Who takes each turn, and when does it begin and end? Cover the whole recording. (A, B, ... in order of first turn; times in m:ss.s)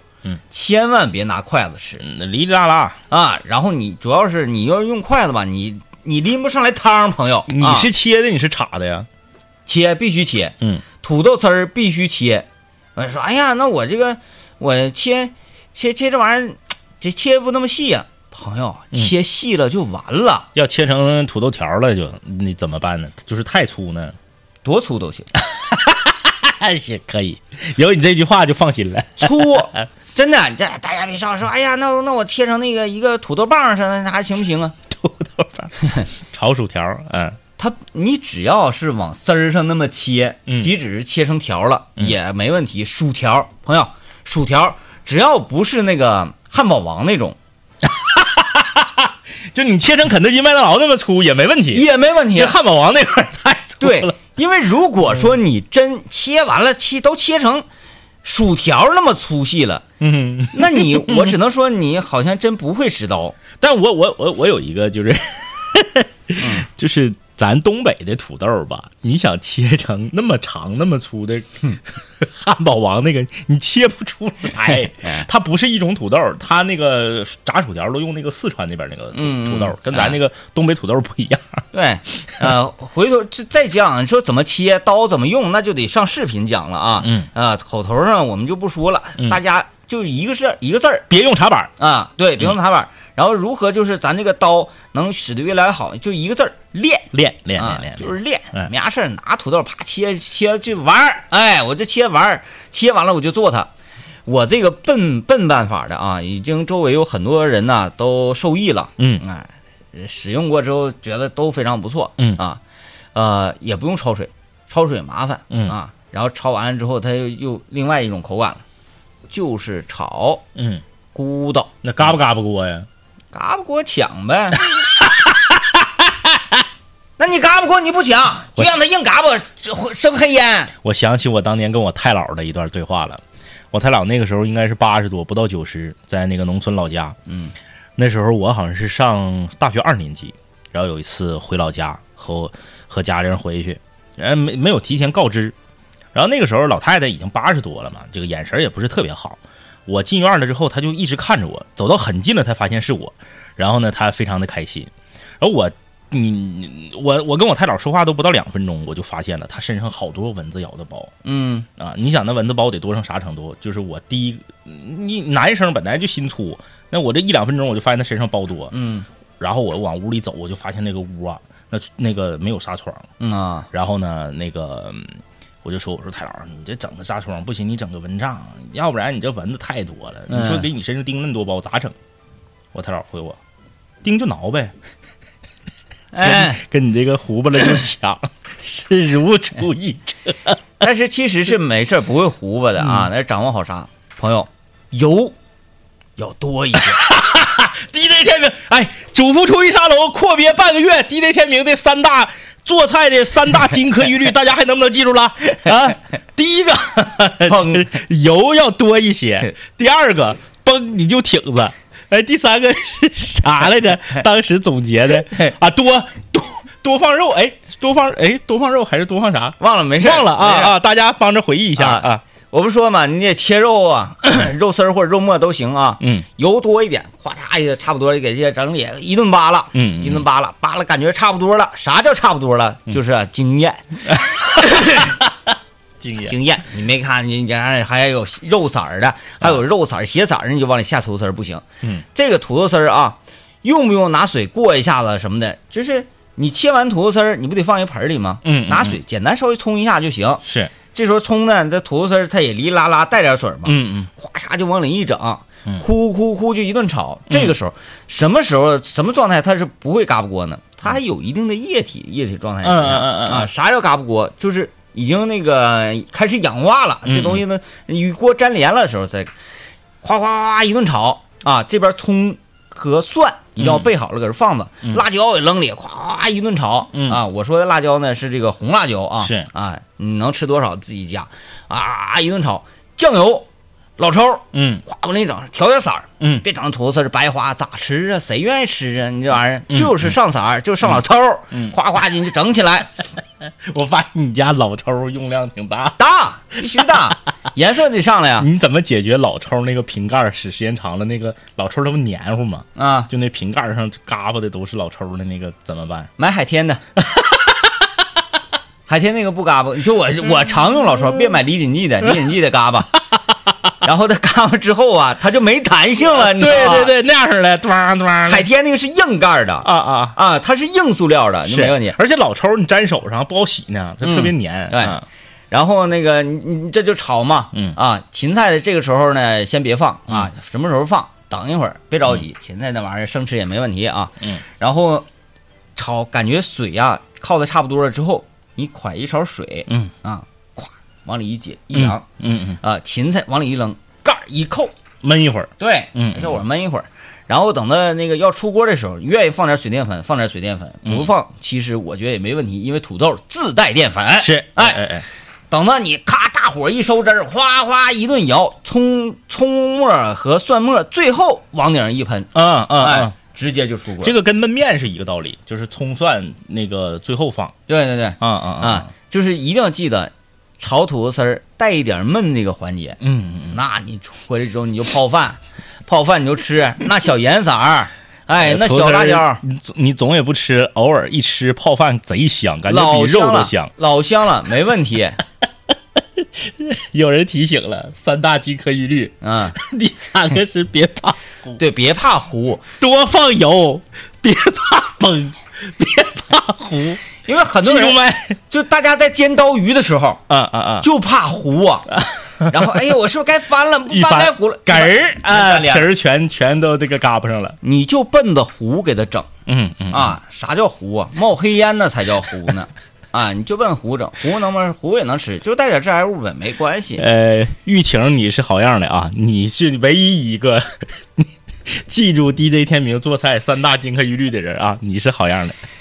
0:00.5-0:02.0 A
0:02.0-0:03.0 B
0:03.1-0:07.9 A
0:07.5-0:09.1 B
0:09.7-0:20.5 A
0:20.5-0:24.2 B
0:24.6-0:25.3 A
0:25.4-0:29.8 B
0:29.2-0:34.7 A
0:34.9-0:35.7 B
0:35.8-0:36.1 A
0:36.2-0:37.4 B
0:37.6-0:47.4 A
0:40.5-0:40.7 B
0:47.8-0:54.1 B
0:51.7-0:52.6 A
0:53.8-0:57.6 A
0:58.2-0:59.8 A
1:00.0-1:01.4 B
1:00.5-1:03.4 A
1:03.6-1:21.6 B
1:06.4-1:06.6 A
1:15.0-1:15.3 A
1:19.1-1:20.1 A
1:21.7-1:31.1 A
1:27.0-1:27.3 B
1:31.1-1:31.7 B
1:31.8-1:43.7 A
1:37.1-1:38.7 B
1:44.2-1:52.6 A
1:53.1-1:58.6 A
1:55.5-1:55.8 B
1:59.3-2:00.4 A
2:00.6-2:00.8 B
2:01.1-2:01.7 A
2:01.8-2:02.9 B
2:03.3-2:04.6 A
2:04.7-2:06.6 B
2:07.2-2:10.7 A
2:10.8-2:17.2 B
2:17.3-2:17.5 A
2:18.0-2:25.5 B
2:26.1-2:41.1 B
2:41.2-2:41.7 A
2:41.8-2:48.7 B
2:48.7-2:49.1 A
2:49.4-2:53.1 B
2:53.2-2:53.7 A
2:53.7-3:01.9 B
3:00.3-3:00.6 A
3:02.7-3:03.4 B
3:04.0-3:04.7 B
3:06.1-3:06.6 A
3:06.2-3:10.6 B
3:10.8-3:15.4 A
3:12.8-3:13.1 B
3:16.2-3:17.1 A
3:16.8-3:42.2 B
3:27.5-3:28.0 A
3:39.6-3:40.7 A
3:41.8-3:55.1 A
3:49.7-3:50.2 B
3:54.1-3:56.4 B
3:56.2-4:29.3 A
4:08.4-4:09.0 B
4:10.4-4:10.7 B
4:13.6-4:14.1 B
4:17.3-4:17.5 B
4:22.6-4:23.5 B
4:27.0-4:27.4 B
4:30.0-4:52.9 A
4:33.6-4:33.9 B
4:36.9-4:37.2 B
4:39.2-4:39.5 B
4:44.5-4:44.8 B
4:49.7-4:50.1 B
4:51.5-4:51.8 B
4:53.4-4:56.0 B
4:56.0-4:58.5 A
4:58.4-5:06.1 B
5:02.8-5:03.1 A
5:06.2-5:06.8 A
5:07.0-5:07.8 B
5:08.9-5:13.0 A
5:13.8-5:16.9 A
5:16.1-5:18.5 B
5:18.2-5:22.0 A
5:19.6-5:20.2 B
5:21.5-5:25.0 B
5:24.0-5:35.1 A
5:27.5-5:27.8 B
5:35.8-5:42.1 A
5:41.7-5:42.6 B
5:42.6-5:44.7 A
5:45.0-5:46.4 B
5:45.6-5:54.8 A
5:50.8-5:51.1 B
5:54.2-5:55.0 B
5:55.5-6:04.1 A
6:02.3-6:03.1 B
6:04.0-6:07.6 B
6:07.7-6:13.0 A
6:08.2-6:08.9 B
6:13.0-6:13.6 B
6:13.5-6:19.4 A
6:18.4-6:23.7 B
6:22.7-6:25.2 A
6:26.2-6:31.6 B
6:29.2-6:29.6 A
6:31.6-6:32.6 A
6:32.8-6:37.0 B
6:37.2-6:40.2 A
6:37.6-6:38.4 B
6:40.3-6:40.9 B
6:40.8-6:41.9 A
6:41.9-6:42.8 B
6:42.5-6:45.9 A
6:43.9-6:47.6 B
6:47.6-6:49.3 A
6:49.4-6:50.2 B
6:49.9-6:57.0 A
6:57.0-7:05.6 B